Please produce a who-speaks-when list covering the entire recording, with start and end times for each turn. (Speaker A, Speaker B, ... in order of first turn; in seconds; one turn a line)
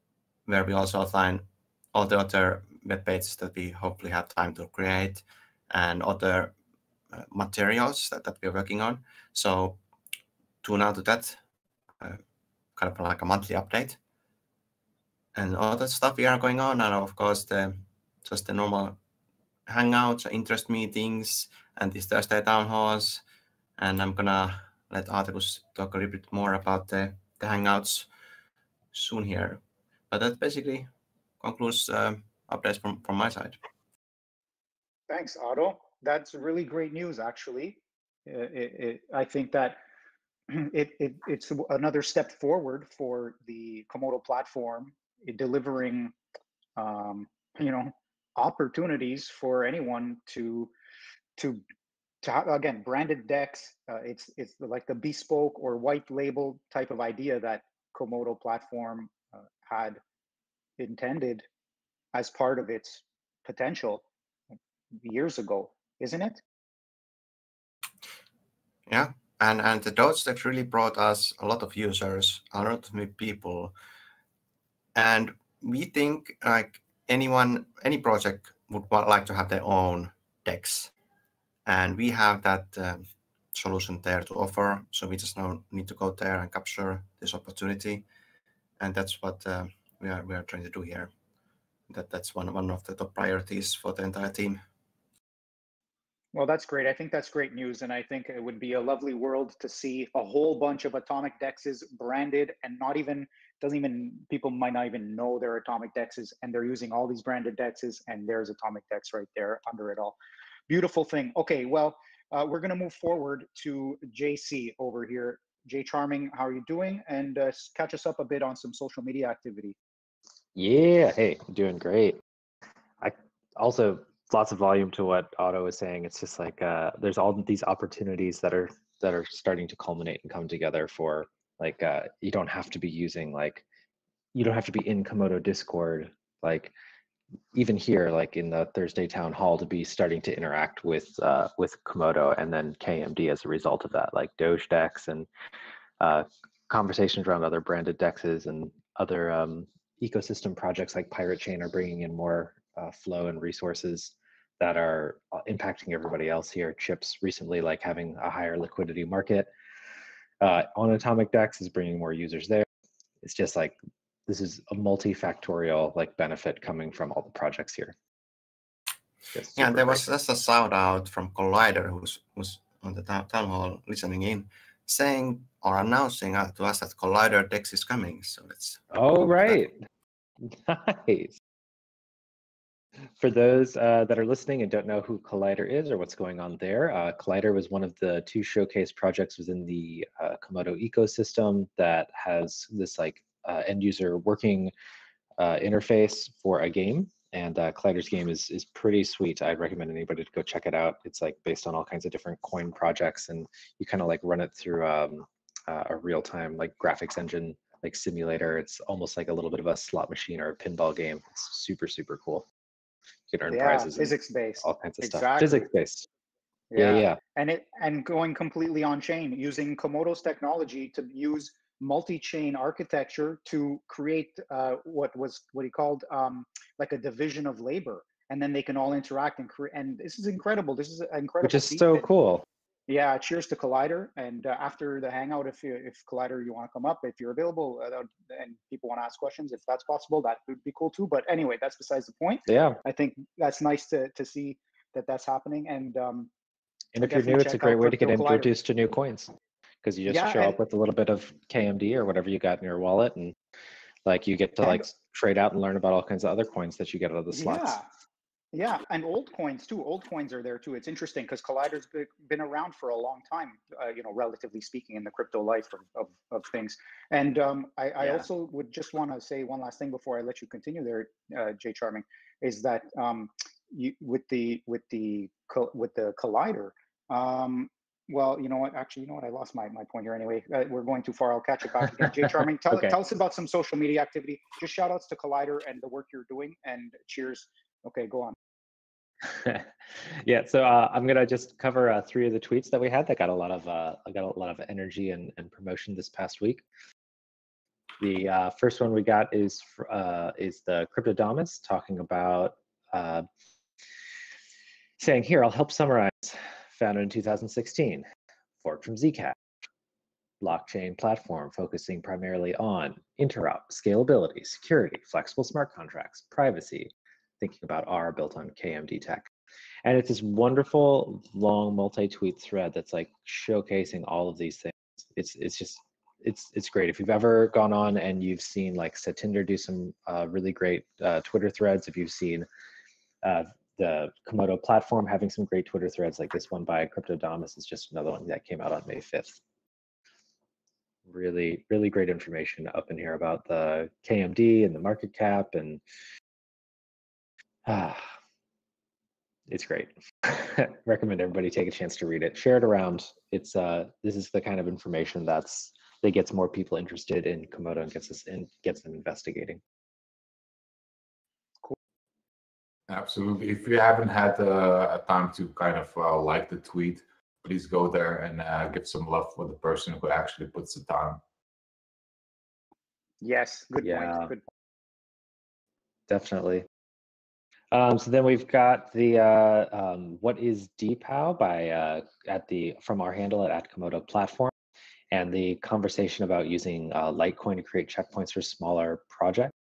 Speaker A: 0.5-6.5
Speaker A: 7.1-9.8
Speaker A: 10.6-11.4
Speaker A: 12.8-14.0
Speaker A: 15.3-19.0
Speaker A: 19.7-23.2
Speaker A: 23.8-28.1
Speaker A: 28.9-30.9
Speaker A: 31.4-33.6
Speaker B: 35.1-39.8
Speaker B: 40.5-46.1
Speaker B: 46.8-50.7
Speaker B: 51.4-51.6
Speaker B: 52.2-60.0
Speaker B: 60.8-61.5
Speaker B: 62.1-64.0
Speaker B: 65.0-66.4
Speaker A: 68.9-73.7
Speaker A: 75.0-80.9
Speaker A: 81.7-88.0
Speaker A: 88.8-91.1
Speaker A: 91.9-94.6
Speaker B: 96.3-110.2
Speaker B: 110.7-119.8
Speaker C: 120.5-122.2
Speaker C: 123.0-133.6
Speaker C: 134.3-136.7
Speaker C: 137.5-145.3
Speaker C: 146.0-159.5
Speaker C: 160.4-162.7
Speaker C: 163.2-163.8
Speaker C: 164.3-167.9
Speaker C: 169.3-170.0
Speaker A: 169.5-178.9
Speaker C: 178.9-179.8
Speaker C: 180.4-181.4
Speaker C: 183.0-194.7
Speaker C: 195.4-212.5
Speaker C: 213.3-216.1
Speaker B: 213.5-215.7
Speaker B: 216.7-232.1
Speaker C: 216.8-217.2
Speaker C: 231.4-232.4
Speaker B: 232.9-246.3
Speaker C: 242.5-242.8
Speaker C: 246.9-249.3
Speaker B: 247.0-248.5
Speaker C: 249.8-253.3
Speaker B: 250.1-250.6
Speaker C: 254.0-257.8
Speaker B: 257.3-257.9
Speaker B: 258.5-288.4
Speaker C: 268.0-268.2
Speaker C: 289.2-296.6
Speaker C: 298.0-303.2
Speaker C: 305.0-308.0
Speaker C: 308.6-309.4
Speaker C: 310.4-319.3
Speaker C: 319.9-332.5
Speaker C: 333.2-339.4
Speaker C: 341.1-345.8
Speaker C: 347.6-348.0
Speaker C: 349.5-359.6
Speaker D: 362.9-371.2
Speaker B: 373.2-374.4
Speaker C: 373.8-374.3
Speaker C: 376.1-376.7
Speaker C: 377.7-384.5
Speaker C: 385.1-389.5